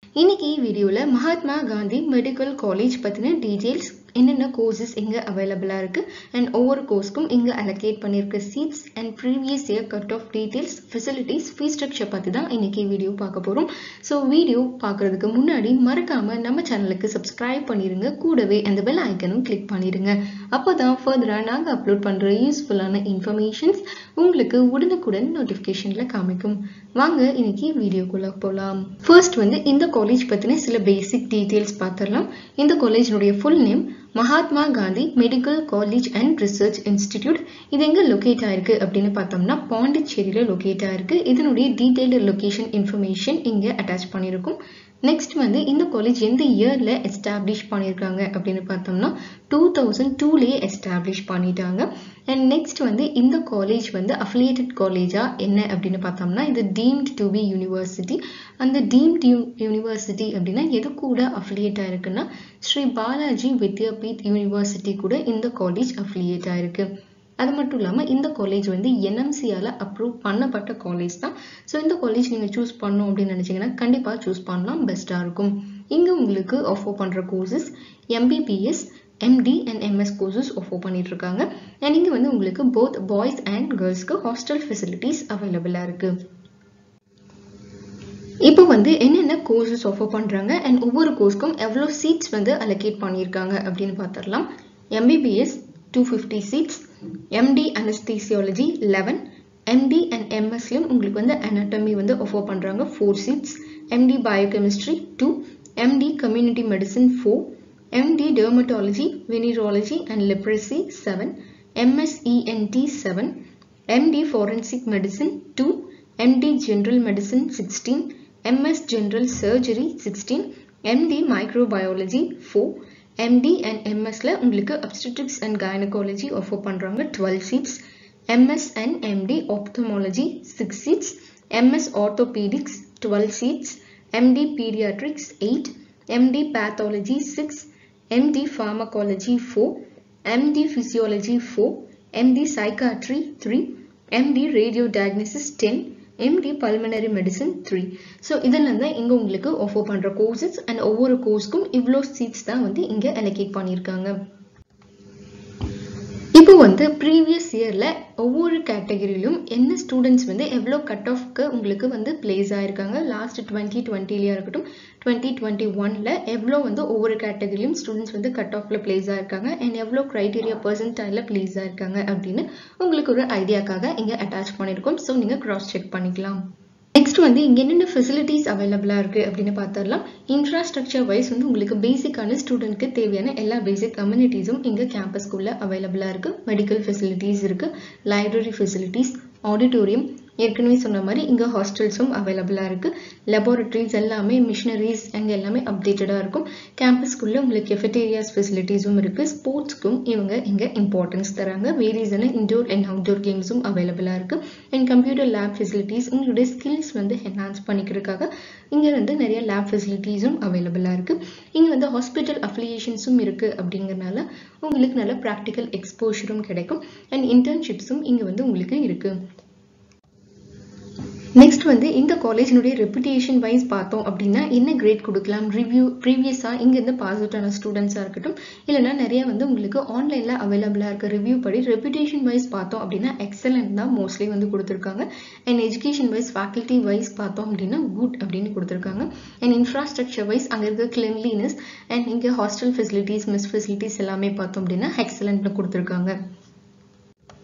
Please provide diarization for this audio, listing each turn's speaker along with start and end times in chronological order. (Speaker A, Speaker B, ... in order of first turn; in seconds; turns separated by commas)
Speaker A: 0.2-66.9, Speaker A: 67.4-86.2, Speaker A: 88.5-113.4, Speaker A: 113.9-154.1, Speaker A: 156.3-176.4, Speaker A: 176.9-219.2, Speaker A: 221.3-246.1